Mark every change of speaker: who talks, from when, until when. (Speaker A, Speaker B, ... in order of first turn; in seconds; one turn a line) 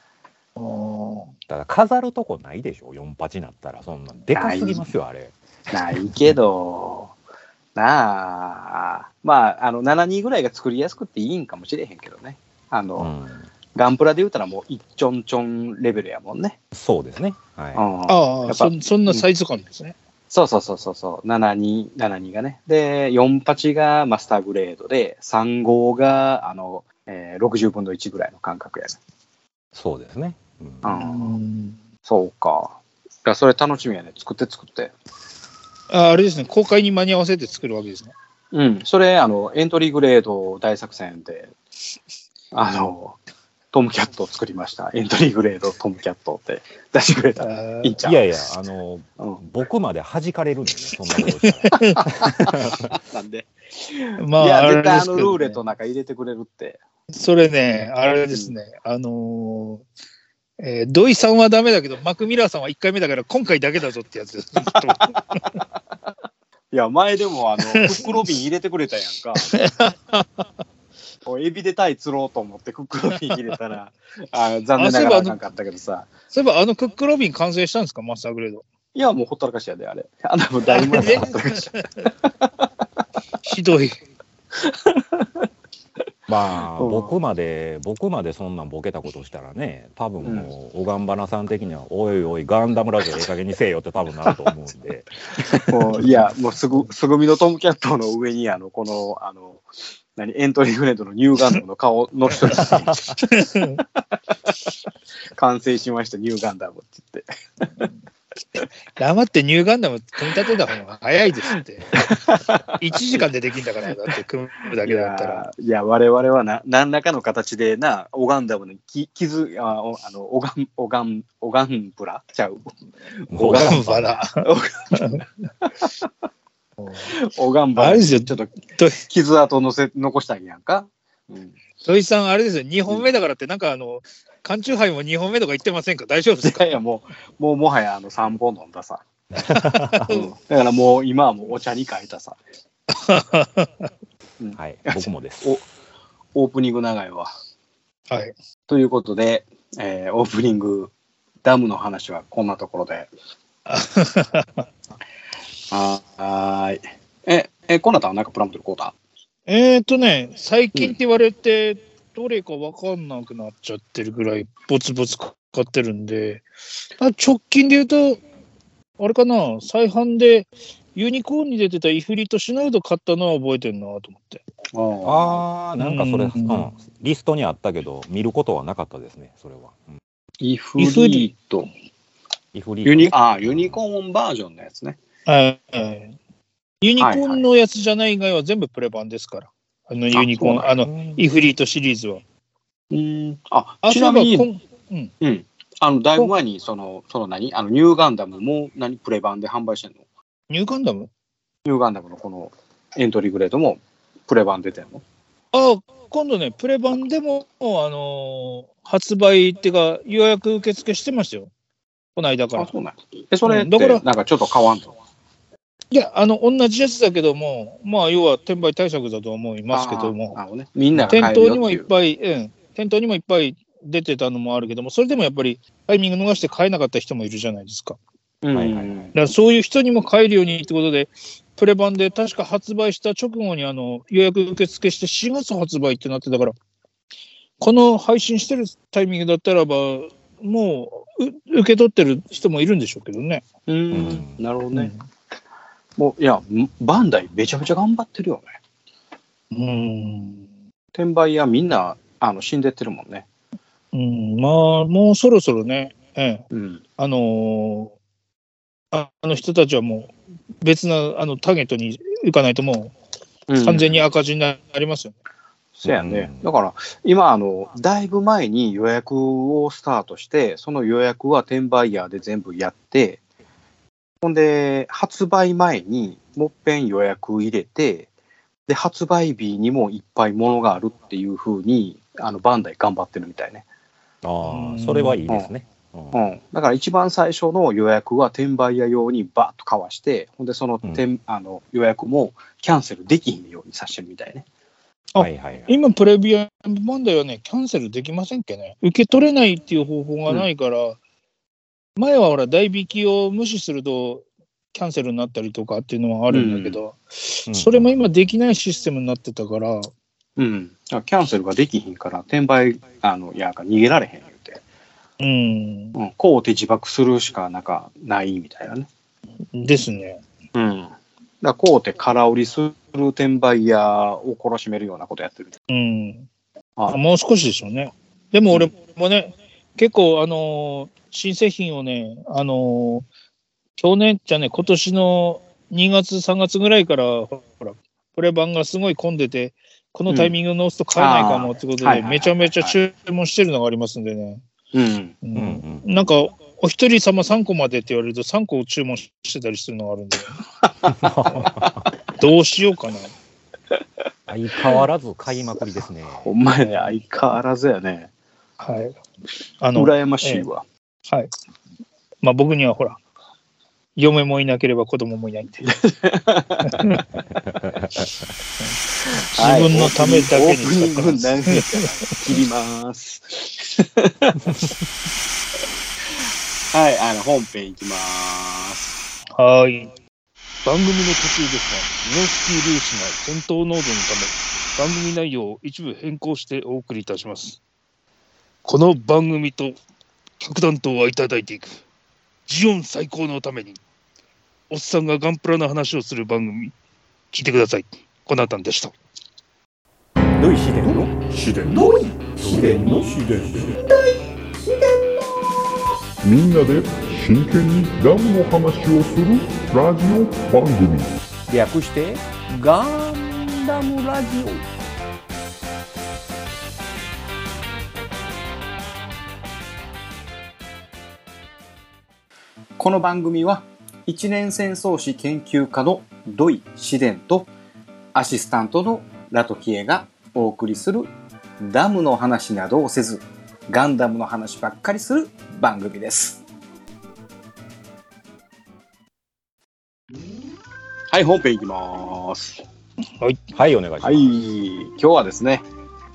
Speaker A: 0.6-1.3
Speaker B: 1.5-5.3
Speaker C: 4.3-4.9
Speaker C: 5.7-7.1
Speaker B: 6.0-6.3
Speaker C: 7.8-13.1
Speaker B: 13.0-13.5
Speaker C: 13.8-16.6
Speaker B: 16.7-17.8
Speaker C: 17.8-19.2
Speaker A: 18.1-19.9
Speaker C: 20.3-29.0
Speaker B: 29.7-30.9
Speaker C: 30.8-31.4
Speaker A: 31.0-31.8
Speaker C: 32.1-34.9
Speaker A: 35.9-38.1
Speaker C: 38.5-41.5
Speaker C: 42.5-43.2
Speaker C: 43.7-48.2
Speaker A: 47.4-47.9
Speaker B: 48.0-52.9
Speaker A: 51.4-52.0
Speaker C: 51.9-56.8
Speaker A: 54.2-55.6
Speaker A: 57.1-59.8
Speaker A: 60.6-65.5
Speaker C: 66.7-69.5
Speaker A: 67.7-68.1
Speaker A: 69.5-70.4
Speaker C: 71.3-76.1
Speaker A: 74.8-75.4
Speaker A: 76.3-78.6
Speaker C: 79.0-81.7
Speaker A: 80.7-81.9
Speaker A: 83.4-84.0
Speaker C: 84.6-85.3
Speaker B: 86.3-96.1
Speaker C: 86.8-87.1
Speaker C: 90.2-90.5
Speaker C: 95.6-99.6
Speaker C: 100.2-103.1
Speaker A: 103.2-103.8
Speaker C: 105.4-107.3
Speaker A: 109.0-112.0
Speaker C: 111.9-112.6
Speaker A: 112.8-115.5
Speaker C: 114.8-126.1
Speaker B: 123.3-124.1
Speaker A: 123.5-125.2
Speaker A: 126.8-127.1
Speaker C: 127.1-128.5
Speaker A: 127.8-129.1
Speaker C: 129.1-131.6
Speaker A: 131.8-136.8
Speaker C: 136.4-139.0
Speaker B: 139.4-140.2
Speaker C: 140.1-142.4
Speaker A: 142.9-143.9
Speaker C: 144.4-145.6
Speaker B: 144.6-145.6
Speaker C: 146.3-147.3
Speaker C: 148.7-150.9
Speaker C: 151.4-153.1
Speaker A: 153.7-154.7
Speaker C: 155.7-158.9
Speaker A: 159.5-166.5
Speaker A: 167.0-168.2
Speaker A: 169.0-174.4
Speaker C: 174.7-175.4
Speaker B: 175.0-179.9
Speaker A: 175.8-176.7
Speaker C: 180.4-181.7
Speaker A: 180.8-181.3
Speaker B: 182.5-183.7
Speaker C: 182.8-185.0
Speaker A: 185.3-186.2
Speaker A: 186.8-192.2
Speaker C: 187.0-187.4
Speaker C: 190.1-190.7
Speaker B: 190.8-191.2
Speaker C: 192.9-194.5
Speaker A: 193.8-195.1
Speaker C: 195.2-200.0
Speaker A: 200.5-201.1
Speaker C: 201.7-205.0
Speaker A: 205.5-211.5
Speaker A: 212.2-212.7
Speaker C: 212.6-214.9
Speaker A: 213.4-214.0
Speaker A: 215.9-220.4
Speaker C: 219.7-221.9
Speaker B: 220.9-221.3
Speaker A: 221.1-228.0
Speaker C: 228.4-229.1
Speaker B: 228.5-229.1
Speaker A: 229.2-236.5
Speaker A: 237.6-243.4
Speaker C: 243.7-244.9
Speaker B: 243.9-244.4
Speaker A: 244.7-245.0
Speaker C: 246.0-248.5
Speaker A: 249.5-250.4
Speaker C: 251.0-253.3
Speaker A: 253.9-256.4
Speaker C: 256.5-256.8
Speaker A: 257.0-257.9
Speaker A: 258.9-262.9
Speaker C: 263.5-264.0
Speaker A: 263.6-265.1
Speaker C: 265.8-273.2
Speaker B: 265.9-266.4
Speaker C: 274.2-278.1
Speaker C: 278.7-283.6
Speaker B: 284.2-286.2
Speaker A: 284.4-285.2
Speaker C: 286.1-294.4
Speaker A: 295.1-301.0
Speaker B: 295.2-295.8
Speaker A: 302.0-309.9
Speaker C: 306.3-306.8
Speaker B: 307.5-307.9
Speaker C: 310.4-314.6
Speaker A: 315.2-316.0
Speaker C: 315.9-318.9
Speaker A: 319.5-320.2
Speaker C: 320.6-325.5
Speaker A: 325.7-326.3
Speaker A: 326.9-333.1
Speaker A: 333.8-344.4
Speaker C: 340.1-340.4
Speaker C: 341.0-342.8
Speaker C: 344.7-345.2
Speaker A: 345.2-350.4
Speaker B: 345.4-345.9
Speaker B: 350.9-351.8
Speaker A: 352.1-353.1
Speaker B: 354.3-356.3
Speaker C: 356.2-358.1
Speaker A: 358.6-359.0
Speaker A: 359.6-360.5
Speaker C: 359.8-360.6
Speaker A: 362.2-363.0
Speaker A: 364.0-365.7
Speaker C: 365.7-366.9
Speaker A: 366.6-367.0
Speaker A: 369.3-371.6
Speaker C: 369.4-374.5
Speaker C: 376.7-379.0
Speaker A: 379.4-379.9
Speaker A: 380.6-387.6
Speaker A: 388.6-389.8
Speaker A: 390.4-391.8
Speaker A: 392.5-393.8
Speaker A: 394.7-396.7
Speaker A: 397.3-398.9
Speaker B: 400.4-403.8
Speaker D: 406.2-411.2
Speaker B: 411.5-414.6
Speaker C: 422.8-427.5
Speaker C: 428.1-436.4
Speaker C: 441.1-442.6
Speaker B: 443.5-444.4
Speaker C: 444.0-445.7